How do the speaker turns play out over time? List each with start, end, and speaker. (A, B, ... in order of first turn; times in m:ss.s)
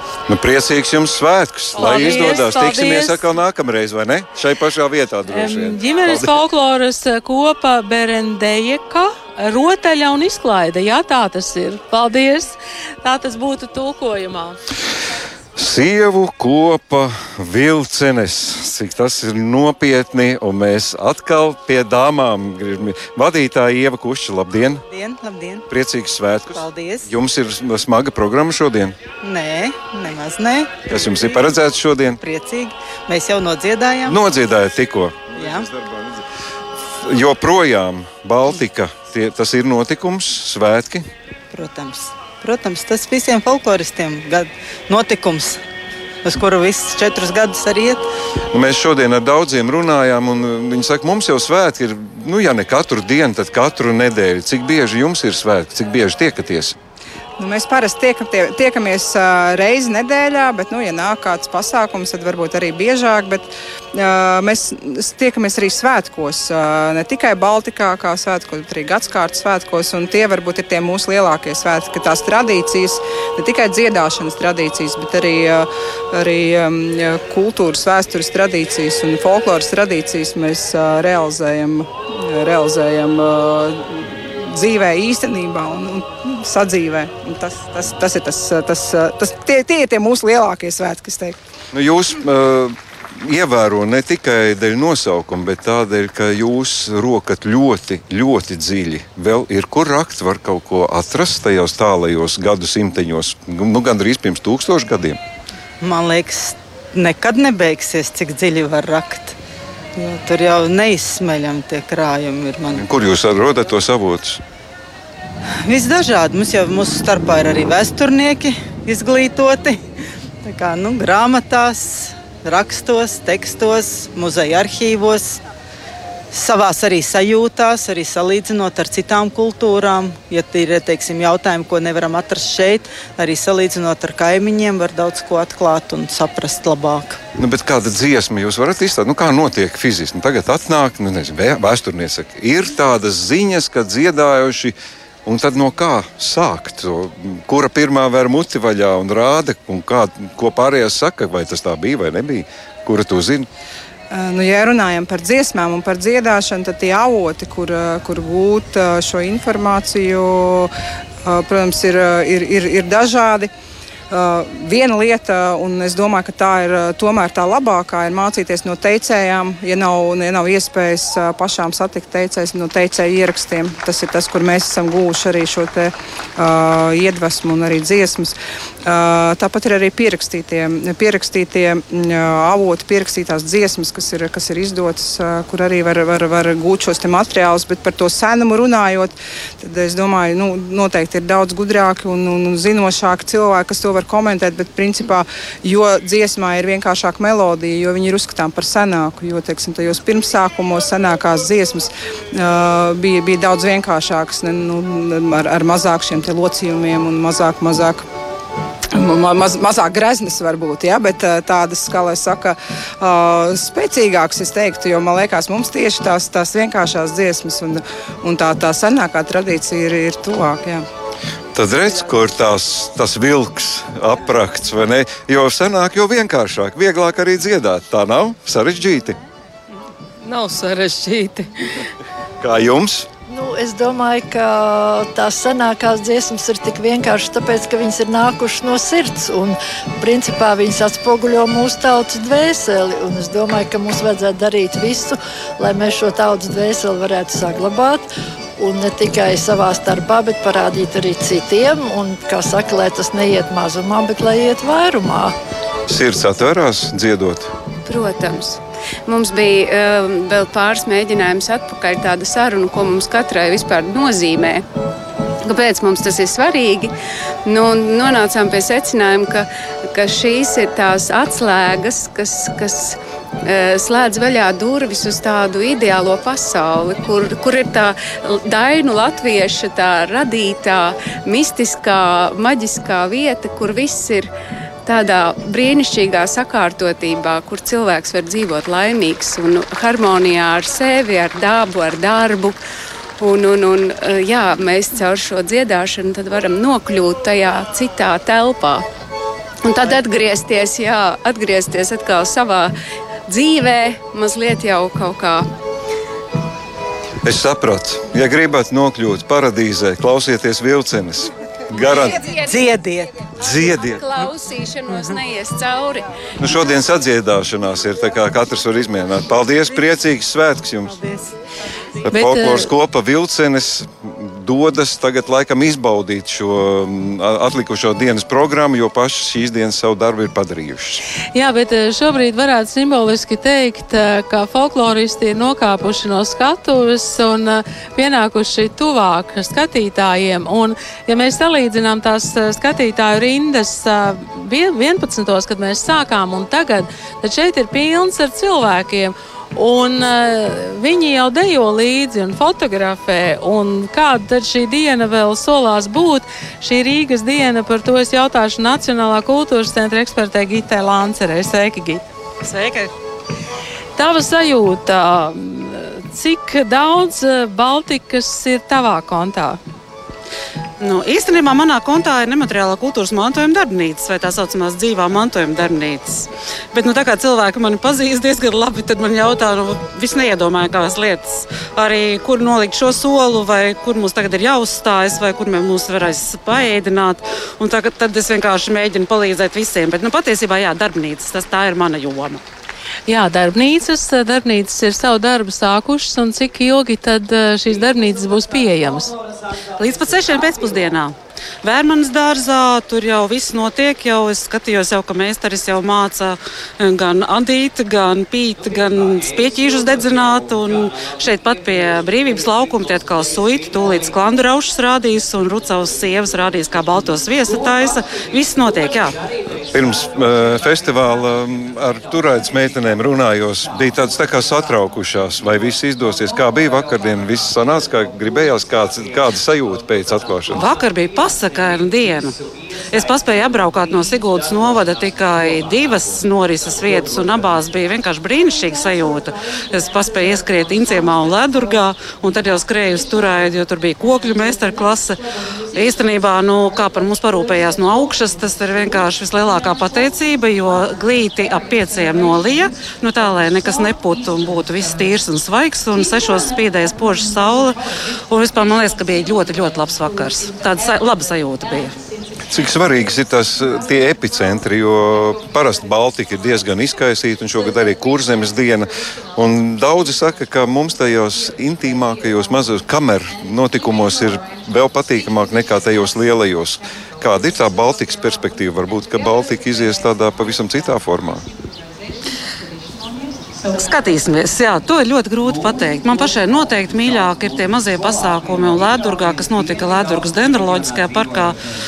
0:00.3-0:06.4 A
0:01.8-0:03.2 B
0:05.3-0:14.6 B
0:15.6-0:24.8 A
0:24.9-0:25.6 C
0:25.7-0:29.0 A
0:26.5-0:27.1 C
0:29.2-0:31.2 C
0:30.9-0:32.2 A
0:32.2-0:34.2 C
0:34.1-0:36.2 A
0:35.4-0:35.6 C
0:36.8-0:41.1 A
0:41.5-0:45.6 C
0:46.2-0:48.0 C
0:48.5-0:56.8 A
0:57.4-1:31.4 D
1:31.7-1:45.2 A
1:45.8-1:49.4 C
1:50.0-1:52.8 C
1:52.7-1:54.4 A
1:55.6-1:59.8 C
2:00.4-2:05.4 C
2:06.3-2:17.2 C
2:17.4-2:33.5 A
2:34.1-2:40.7 D
2:41.2-2:43.5 D
2:44.1-2:58.4 D
2:58.9-3:28.0 D
3:28.9-3:40.8 D
3:41.5-3:49.2 A
3:50.3-3:51.4 E
3:52.4-3:53.1 A
3:53.3-4:08.1 F
4:08.6-4:15.3 F
4:15.9-4:17.5 A
4:17.8-4:24.6 E
4:25.4-4:26.9 E
4:27.5-4:44.3 E
4:44.9-4:52.6 E
4:53.2-4:58.8 E
4:59.6-5:02.7 E
5:03.3-5:05.5 E
5:07.2-5:12.2 A
5:11.9-5:12.7 E
5:12.5-5:13.1 C
5:13.4-5:14.2 A
5:13.4-5:16.1 E
5:16.4-5:21.0 A
5:22.0-5:31.0 A
5:22.1-5:22.7 B
5:31.4-6:02.0 B
6:04.0-6:09.6 B
6:10.8-6:32.4 G
6:33.1-6:39.1 B
6:39.8-6:59.2 G
6:59.7-7:10.7 A
7:10.5-7:12.4 G
7:12.9-7:25.2 G
7:25.7-7:37.8 G
7:38.3-7:41.9 G
7:42.5-8:01.4 A
8:03.7-8:11.6 G